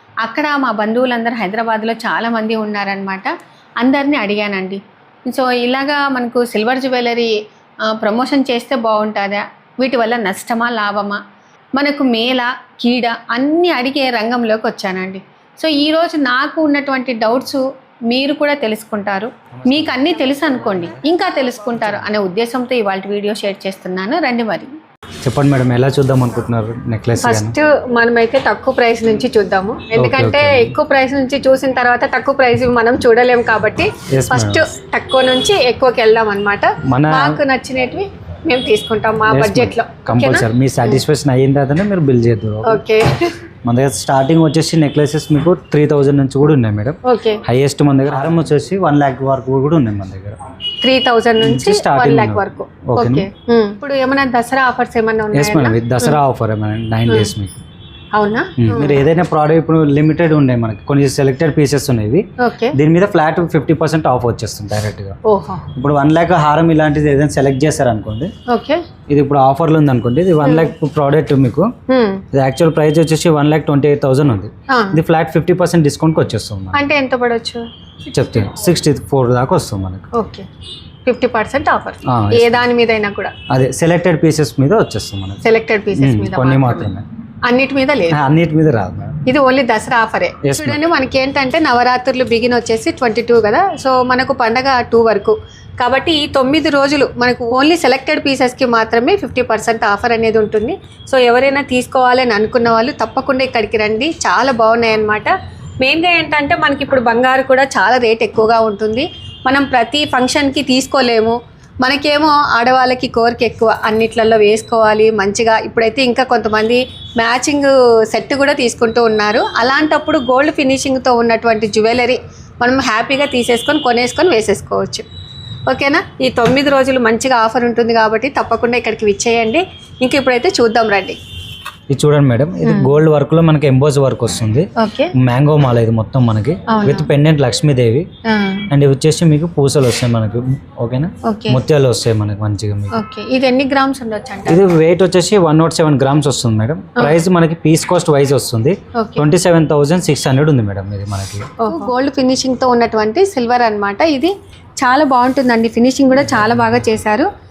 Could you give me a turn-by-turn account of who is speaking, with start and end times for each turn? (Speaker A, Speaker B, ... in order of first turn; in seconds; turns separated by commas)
Speaker A: 0.2-7.3, Speaker A: 7.9-11.2, Speaker A: 11.8-24.7, Speaker B: 19.5-21.0, Speaker B: 21.8-22.0, Speaker B: 25.2-27.6, Speaker A: 27.2-41.0, Speaker B: 30.0-30.7, Speaker B: 34.1-34.7, Speaker B: 36.9-37.4, Speaker B: 39.3-42.8, Speaker A: 42.6-43.3, Speaker B: 43.6-50.4, Speaker A: 47.0-47.4, Speaker A: 50.8-56.2, Speaker B: 51.4-53.3, Speaker B: 55.3-57.6, Speaker A: 58.1-59.0, Speaker B: 58.6-65.2, Speaker A: 62.4-62.8, Speaker A: 65.2-65.7, Speaker B: 65.7-68.3, Speaker A: 68.5-68.8, Speaker B: 69.1-71.7, Speaker A: 70.4-70.7, Speaker A: 71.9-72.2, Speaker B: 72.3-76.9, Speaker A: 74.7-75.0, Speaker A: 76.7-77.7, Speaker B: 78.1-80.0, Speaker A: 80.1-80.5, Speaker A: 81.1-83.3, Speaker B: 82.1-82.7, Speaker B: 83.5-85.4, Speaker A: 85.4-86.9, Speaker B: 85.9-87.0, Speaker A: 87.5-88.2, Speaker B: 88.1-89.2, Speaker A: 89.2-125.0, Speaker B: 90.4-90.8, Speaker A: 125.7-131.2, Speaker B: 131.9-138.1, Speaker A: 132.6-132.9, Speaker A: 134.8-135.1, Speaker A: 136.7-137.1, Speaker A: 138.3-138.7, Speaker B: 138.7-143.0, Speaker A: 141.2-141.6, Speaker A: 142.9-144.6, Speaker B: 144.5-151.5, Speaker A: 149.0-149.2, Speaker A: 151.6-157.3